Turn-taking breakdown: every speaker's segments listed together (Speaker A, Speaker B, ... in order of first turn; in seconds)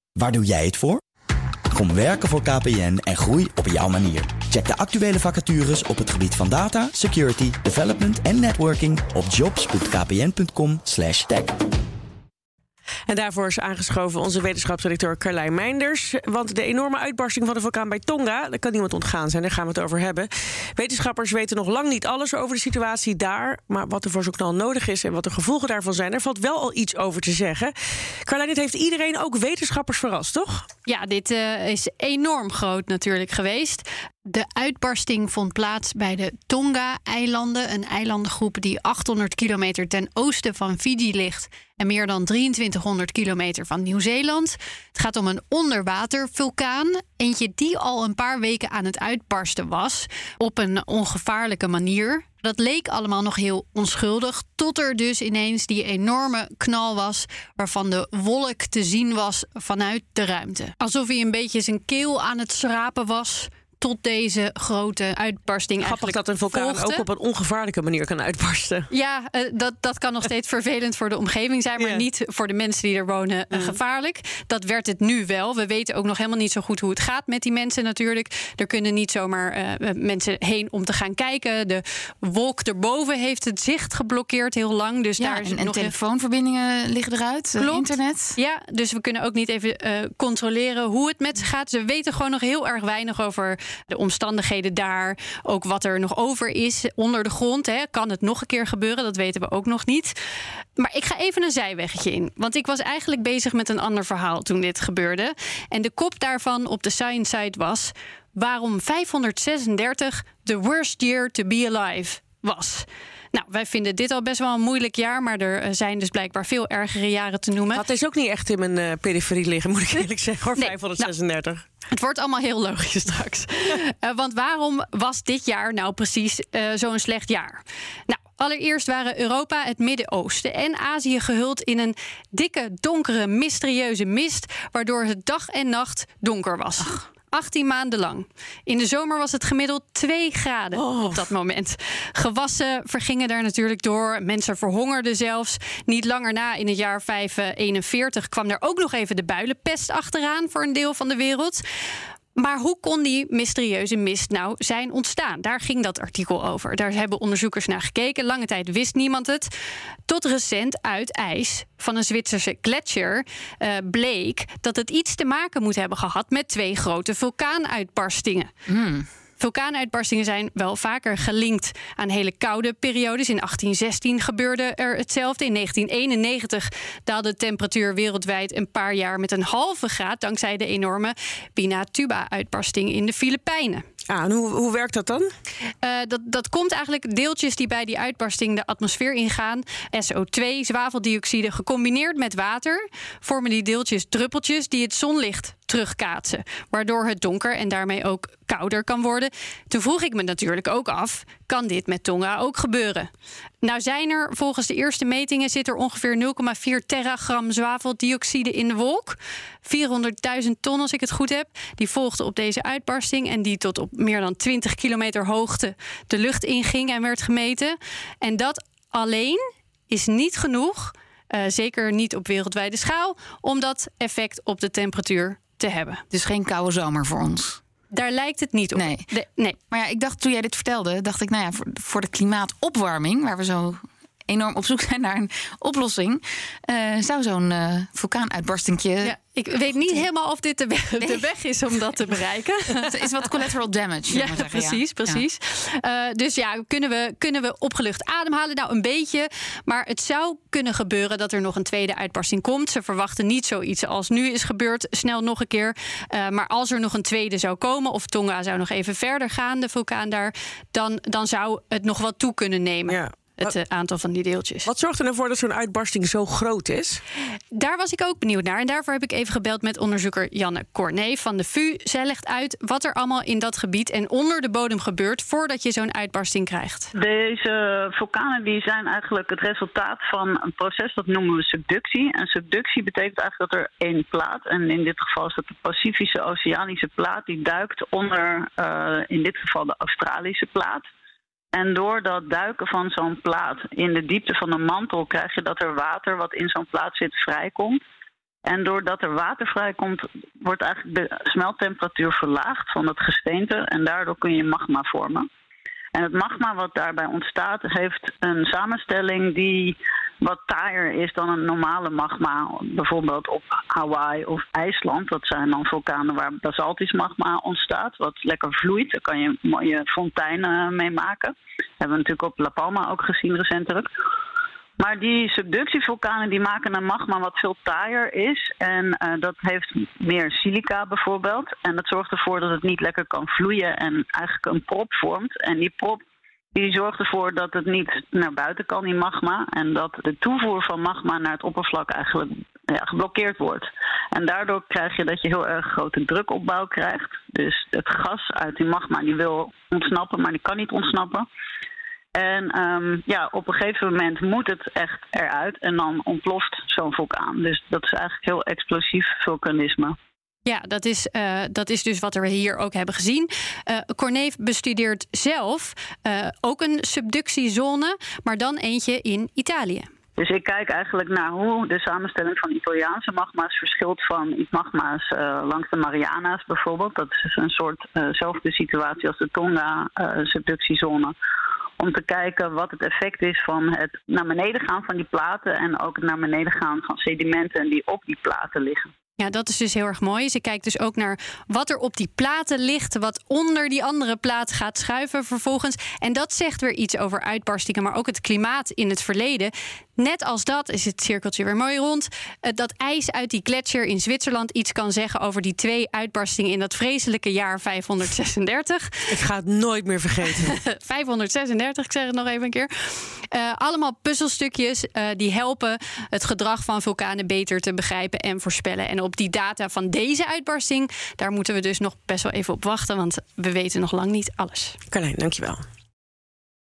Speaker A: 0.2-1.0, 1.7-11.6
Speaker B: 13.1-27.7, 28.2-30.7, 65.8-68.9, 71.8-72.0, 73.5-73.8, 117.7-121.7, 140.7-141.2, 184.1-185.3, 262.9-263.6, 264.6-267.0, 409.1-410.6, 424.9-425.6
Speaker C: 30.9-67.1, 68.9-85.9, 87.6-100.2, 100.8-117.8, 120.6-121.1, 121.9-151.6, 152.3-159.5, 160.1-168.5, 169.4-183.8, 185.8-203.1, 203.6-226.0, 227.9-229.6, 239.0-243.0, 244.1-264.7, 267.5-276.9, 360.4-369.9, 389.2-409.1, 410.4-424.8
Speaker D: 85.2-88.4, 168.7-169.1, 226.1-227.6, 228.8-229.1, 229.7-239.2, 241.0-241.3, 242.8-245.2
Speaker E: 276.9-290.9, 291.5-297.8, 298.5-305.3, 305.9-323.9, 324.8-336.0, 336.5-351.3, 352.2-360.0, 370.2-381.1, 381.8-388.9